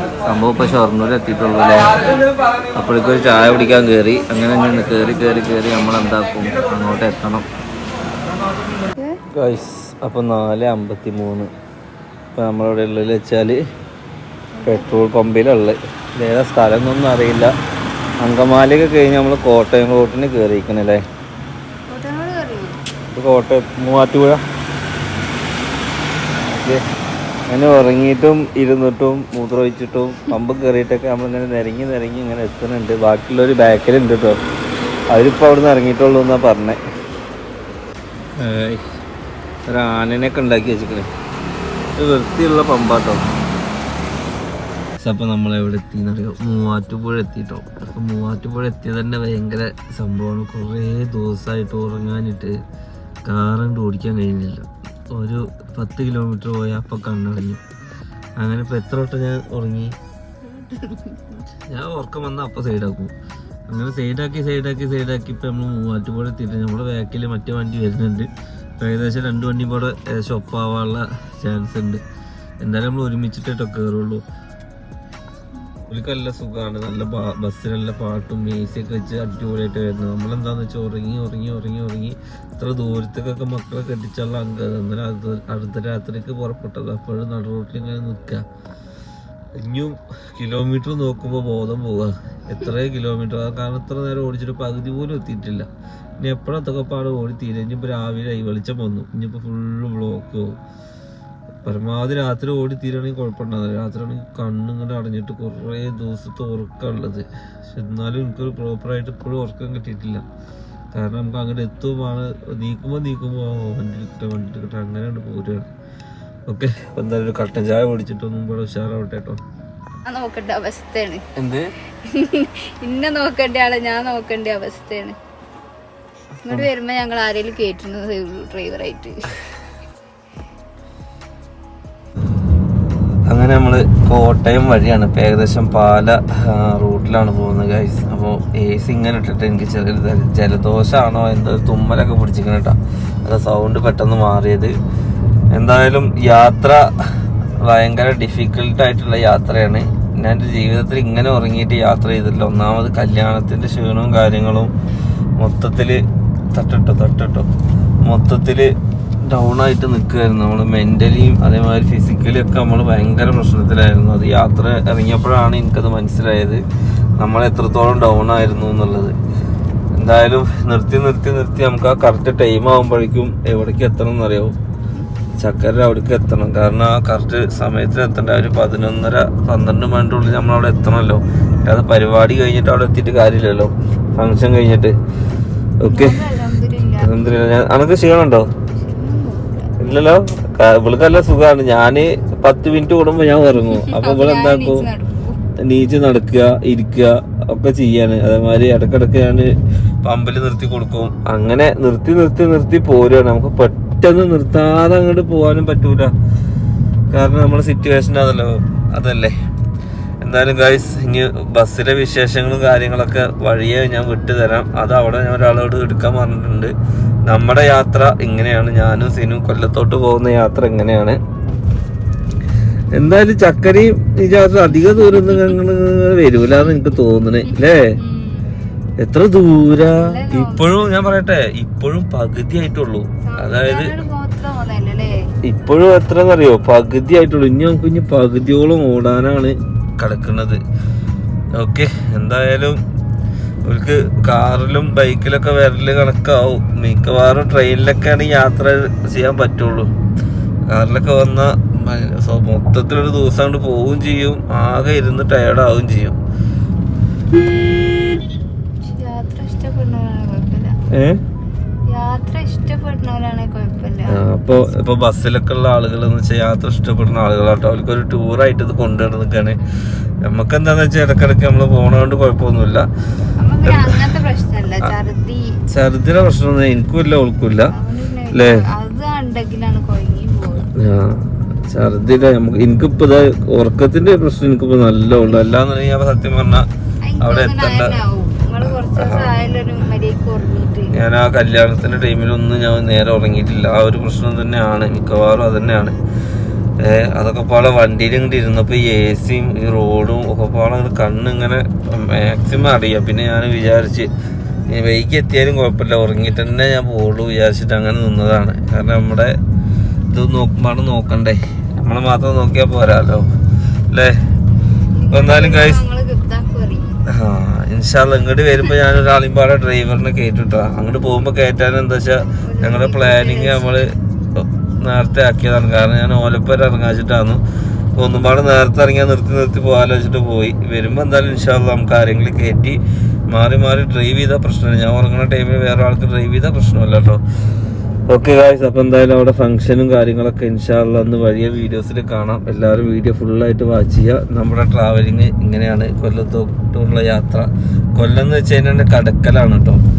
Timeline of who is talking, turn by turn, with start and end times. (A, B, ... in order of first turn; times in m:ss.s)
0:00.3-0:02.0 A
0:02.7-0:07.4 A
0:08.9-0:09.2 B
0:09.3-0:11.5 A
0:12.4-0:13.6 A
0:14.5-0:15.1 B
0:14.7-0:17.5 A
0:18.2-0:21.0 A
0:21.9-0:22.8 B
0:23.1-0:24.4 A
0:26.4-0:26.8 A
0:27.5-0:34.4 A
0:35.1-0:36.8 A
0:38.4-0:38.8 A
0:39.7-0:41.1 A
0:42.0-0:43.2 A
0:45.0-0:52.5 A
0:53.2-0:57.6 A
0:58.4-0:59.9 A
1:00.4-1:01.4 B
1:01.7-1:03.1 A
1:03.7-1:08.3 A
1:08.8-1:12.0 A
1:12.6-1:14.2 A
1:15.9-1:28.4 A
1:29.6-1:35.7 A
1:36.2-1:40.5 A
1:41.6-1:50.2 A
1:50.9-1:55.7 A
1:56.5-1:59.4 A
2:00.1-2:01.2 B
2:01.4-2:01.7 A
2:02.0-2:05.2 B
2:06.4-2:09.3 B
2:13.3-2:24.7 A
2:25.5-2:26.8 A
2:27.6-2:34.7 A
2:35.4-2:36.0 A
2:36.5-2:37.5 A
2:38.0-2:38.7 A
2:39.2-2:46.6 A
2:47.2-2:49.2 A
2:49.9-2:54.6 A
2:55.4-3:04.9 A
3:05.8-3:06.2 A
3:05.9-3:07.4 B
3:07.0-3:08.4 A
3:08.8-3:09.7 B
3:09.8-3:14.8 A
3:13.6-3:15.4 B
3:15.6-3:19.5 A
3:20.0-3:26.1 A
3:27.1-3:29.3 A
3:30.2-3:36.7 A
3:37.2-3:41.2 A
3:42.9-3:47.9 A
3:46.6-3:46.8 B
3:47.4-3:48.5 B
3:49.0-3:53.9 A
3:49.8-3:50.9 B
3:53.2-3:55.1 B
3:55.4-4:00.6 A
4:01.6-4:02.8 A
4:03.6-4:09.9 A
4:10.7-4:16.2 A
4:18.8-4:20.8 B
4:21.9-4:24.8 B
4:24.1-4:29.6 A
4:30.2-4:32.8 A
4:33.4-4:35.5 B
4:33.7-4:34.0 A
4:35.7-4:37.7 A
4:37.7-4:40.7 B
4:38.3-4:38.7 A
4:40.8-4:46.6 A
4:47.0-4:50.9 B
4:47.2-4:48.0 A
4:48.6-4:49.3 A
4:50.9-4:56.0 A
4:56.8-5:04.1 A
5:04.7-5:09.3 A
5:10.1-5:13.2 A
5:15.0-5:16.9 B
5:15.1-5:15.8 A
5:17.1-5:23.8 A
5:22.4-5:23.6 B
5:24.4-5:27.4 A
5:28.0-5:32.8 A
5:33.3-5:37.2 A
5:38.1-5:47.4 A
5:47.9-5:49.8 A